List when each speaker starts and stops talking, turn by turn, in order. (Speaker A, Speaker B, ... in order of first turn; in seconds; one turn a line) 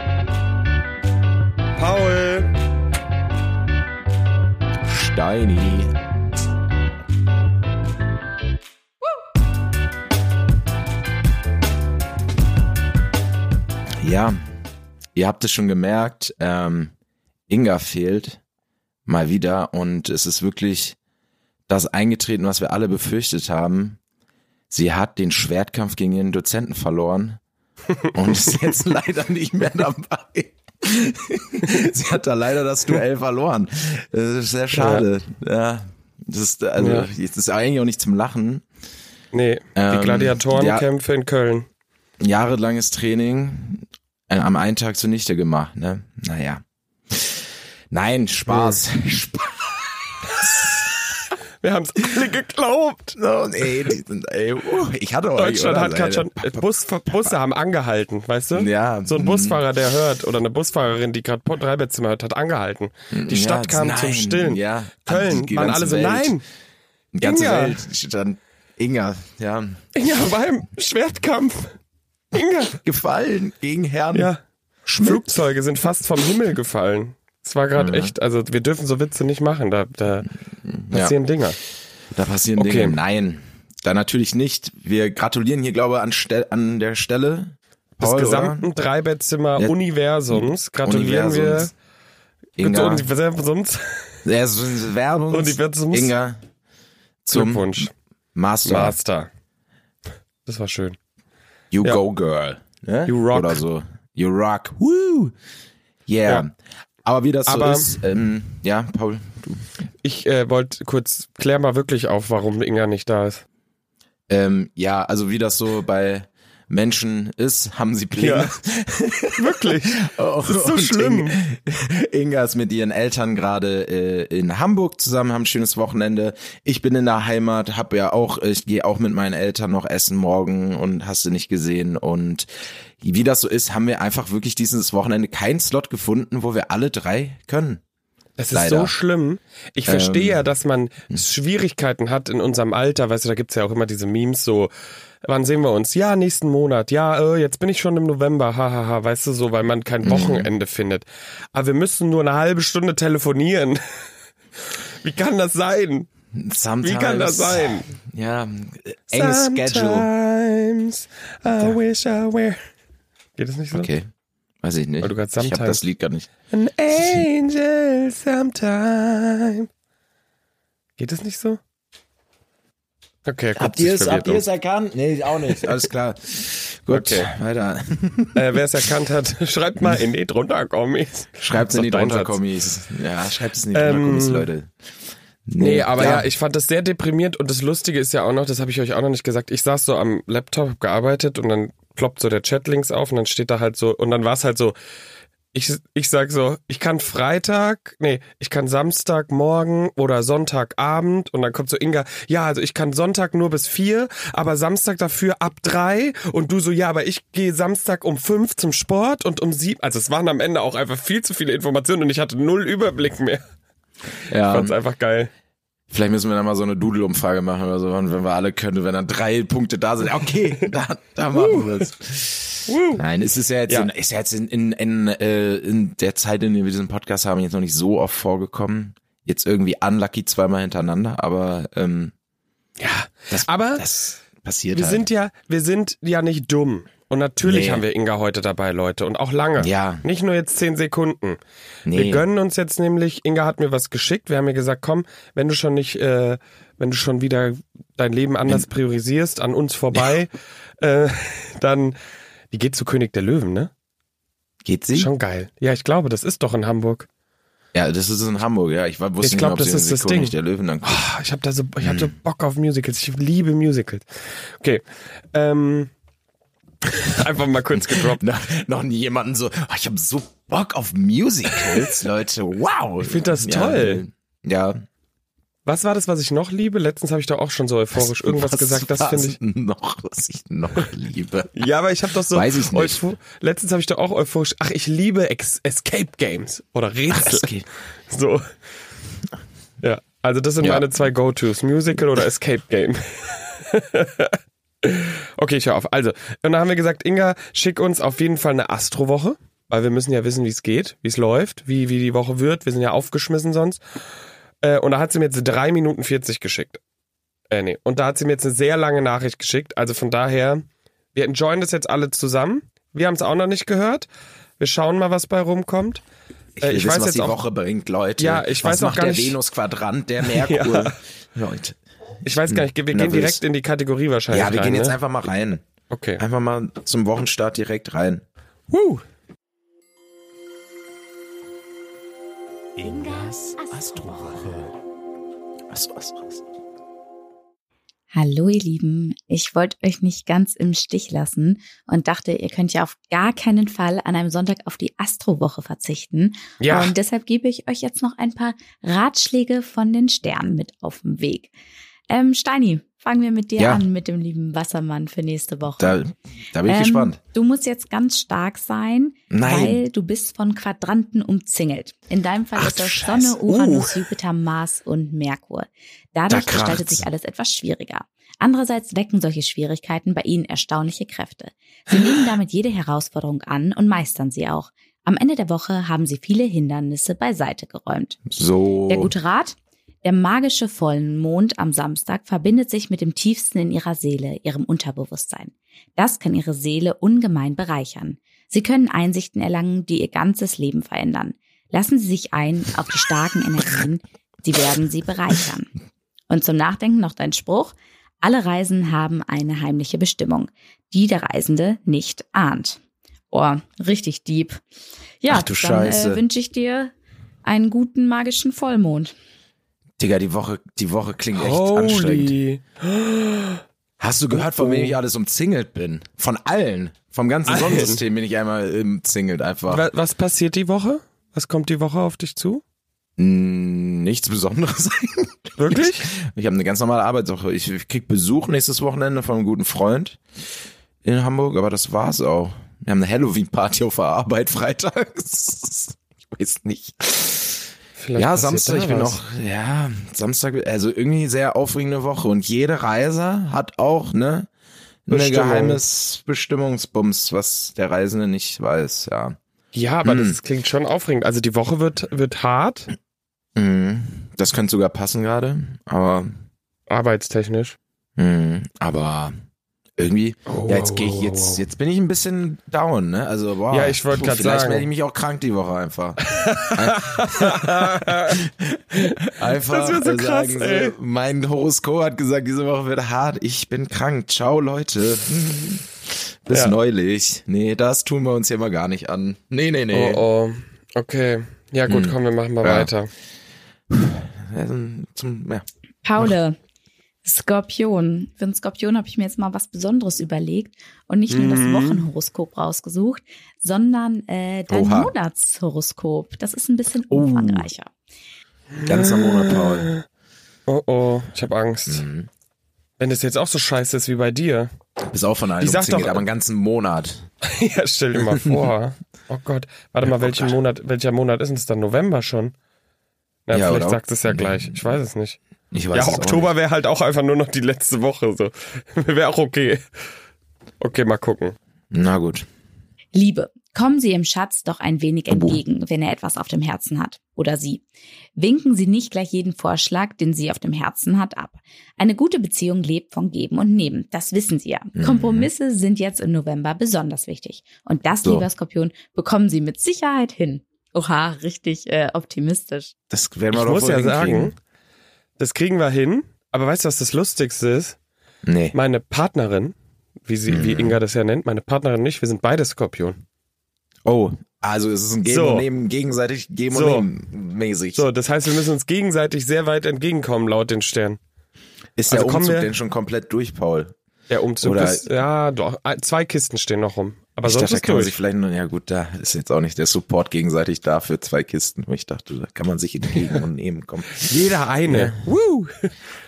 Speaker A: 1.8-2.5
Speaker B: 4.8-5.9
Speaker B: 14.0-14.4
Speaker B: 15.1-16.9
Speaker B: 17.5-18.4
Speaker B: 19.1-21.0
Speaker B: 21.7-24.0
Speaker B: 24.7-27.4
Speaker B: 28.1-38.6
Speaker A: 34.7-35.0
Speaker A: 36.8-37.1
Speaker A: 39.3-41.6
Speaker B: 39.7-40.9
Speaker B: 42.2-50.7
Speaker A: 48.5-48.8
Speaker A: 50.3-51.1
Speaker A: 51.6-53.2
Speaker B: 53.1-56.7
Speaker A: 55.4-66.4
Speaker B: 58.5-59.6
Speaker B: 63.1-66.4
Speaker B: 67.1-69.8
Speaker A: 67.2-67.8
Speaker A: 69.9-71.7
Speaker A: 72.3-72.8
Speaker B: 72.7-74.3
Speaker A: 74.1-74.4
Speaker B: 74.8-75.4
Speaker A: 75.0-80.3
Speaker B: 77.7-78.1
Speaker B: 80.7-81.1
Speaker A: 80.9-81.6
Speaker B: 82.1-88.7
Speaker A: 82.6-83.0
Speaker A: 88.0-91.7
Speaker B: 90.3-91.7
Speaker B: 92.6-93.1
Speaker A: 92.6-94.1
Speaker B: 94.2-96.4
Speaker A: 95.3-96.1
Speaker B: 97.2-99.0
Speaker A: 97.3-97.9
Speaker A: 98.7-99.3
Speaker A: 100.5-101.0
Speaker B: 101.7-105.3
Speaker A: 103.1-103.6
Speaker B: 106.1-106.5
Speaker B: 107.0-109.6
Speaker A: 107.5-107.9
Speaker A: 110.0-113.4
Speaker B: 114.3-132.5
Speaker A: 118.2-118.5
Speaker A: 119.4-121.3
Speaker B: 133.0-137.8
Speaker A: 138.4-144.7
Speaker B: 138.5-138.9
Speaker B: 139.8-140.4
Speaker A: 145.2-153.8
Speaker B: 150.0-150.5
Speaker A: 154.7-156.1
Speaker B: 156.3-160.1
Speaker A: 156.8-157.9
Speaker A: 159.1-162.6
Speaker B: 161.4-161.8
Speaker A: 163.4-163.9
Speaker B: 163.7-164.1
Speaker B: 164.6-166.3
Speaker A: 165.0-165.8
Speaker A: 166.5-169.7
Speaker A: 171.0-171.6
Speaker A: 173.2-174.4
Speaker B: 173.6-178.8
Speaker A: 175.5-175.7
Speaker A: 176.9-177.3
Speaker A: 178.3-182.4
Speaker B: 179.8-180.1
Speaker B: 181.4-184.7
Speaker A: 183.7-184.5
Speaker B: 185.5-186.3
Speaker A: 185.6-194.7
Speaker A: 195.5-213.4
Speaker B: 214.3-214.7
Speaker A: 214.4-215.3
Speaker B: 215.9-232.1
Speaker A: 221.3-221.7
Speaker A: 222.7-223.0
Speaker A: 232.8-233.9
Speaker B: 233.3-235.0
Speaker A: 234.7-241.4
Speaker B: 237.4-237.8
Speaker B: 239.6-240.0
Speaker B: 241.8-242.2
Speaker A: 241.9-251.9
Speaker A: 252.5-253.7
Speaker B: 254.6-255.1
Speaker A: 254.9-257.1
Speaker B: 257.7-261.0
Speaker A: 259.2-264.0
Speaker B: 261.8-262.1
Speaker A: 264.6-265.9
Speaker A: 266.9-268.2
Speaker B: 267.8-274.8
Speaker A: 271.5-271.8
Speaker A: 273.0-274.0
Speaker A: 275.6-279.4
Speaker B: 277.9-281.6
Speaker A: 281.6-287.5
Speaker B: 282.3-283.0
Speaker B: 287.1-287.6
Speaker A: 288.1-288.4
Speaker A: 289.8-303.8
Speaker B: 290.6-290.9
Speaker A: 304.6-306.8
Speaker A: 307.5-314.1
Speaker A: 314.6-316.0
Speaker B: 316.6-323.4
Speaker A: 316.6-317.4
Speaker A: 318.2-319.3
Speaker A: 320.2-320.9
Speaker A: 322.2-324.9
Speaker B: 324.3-325.6
Speaker A: 325.9-326.2
Speaker B: 326.2-328.2
Speaker A: 328.7-329.0
Speaker B: 332.8-334.7
Speaker B: 335.7-336.4
Speaker C: 338.1-351.5
Speaker A: 346.6-346.9
Speaker C: 352.1-356.0
Speaker B: 353.6-353.8
Speaker B: 355.8-357.2
Speaker C: 356.6-378.2
Speaker B: 359.3-359.8
Speaker B: 362.6-364.0
Speaker B: 366.3-367.1
Speaker B: 378.3-379.1
Speaker C: 378.9-395.7
Speaker C: 396.3-404.6
Speaker C: 405.2-409.1
Speaker B: 405.3-406.2
Speaker B: 410.0-412.4
Speaker A: 411.3-413.6
Speaker B: 414.0-419.9
Speaker A: 414.3-415.0
Speaker A: 417.5-418.0
Speaker A: 419.7-422.6
Speaker B: 423.2-430.2
Speaker A: 425.6-426.1
Speaker B: 431.0-437.6
Speaker A: 438.0-439.2
Speaker B: 438.1-444.5
Speaker B: 445.1-449.4
Speaker A: 445.1-445.8
Speaker A: 449.7-452.9
Speaker B: 450.0-450.4
Speaker B: 453.6-456.4
Speaker A: 456.9-457.8
Speaker B: 458.2-459.3
Speaker B: 460.0-480.2
Speaker A: 460.5-461.6
Speaker A: 463.7-464.9
Speaker A: 466.3-468.4
Speaker A: 469.0-470.9
Speaker A: 479.9-483.1
Speaker B: 481.9-482.9
Speaker B: 483.9-485.6
Speaker C: 486.0-486.6
Speaker C: 487.2-497.9
Speaker A: 491.3-492.0
Speaker B: 494.7-495.1
Speaker B: 497.1-497.7
Speaker A: 498.8-500.0
Speaker B: 498.9-499.9
Speaker A: 500.7-502.0
Speaker B: 501.9-502.3
Speaker A: 503.0-504.7
Speaker B: 505.1-507.3
Speaker A: 505.6-506.2
Speaker A: 507.4-512.5
Speaker B: 508.2-508.6
Speaker B: 510.0-510.6
Speaker A: 513.5-515.4
Speaker B: 513.5-514.8
Speaker B: 515.7-516.5
Speaker A: 515.9-519.8
Speaker A: 520.8-521.5
Speaker B: 521.9-522.5
Speaker C: 523.1-527.8
Speaker B: 525.3-525.6
Speaker C: 528.4-542.9
Speaker B: 534.9-535.5
Speaker B: 543.1-544.5
Speaker A: 543.5-544.5
Speaker A: 545.4-548.0
Speaker B: 548.4-548.8
Speaker A: 548.7-549.7
Speaker A: 550.2-553.2
Speaker B: 550.5-551.0
Speaker B: 554.0-558.0
Speaker A: 555.2-555.6
Speaker A: 556.7-557.1
Speaker A: 557.9-561.2
Speaker B: 562.0-563.9
Speaker A: 562.1-562.7
Speaker A: 564.3-568.2
Speaker B: 564.6-565.1
Speaker B: 567.4-575.2
Speaker A: 574.2-575.9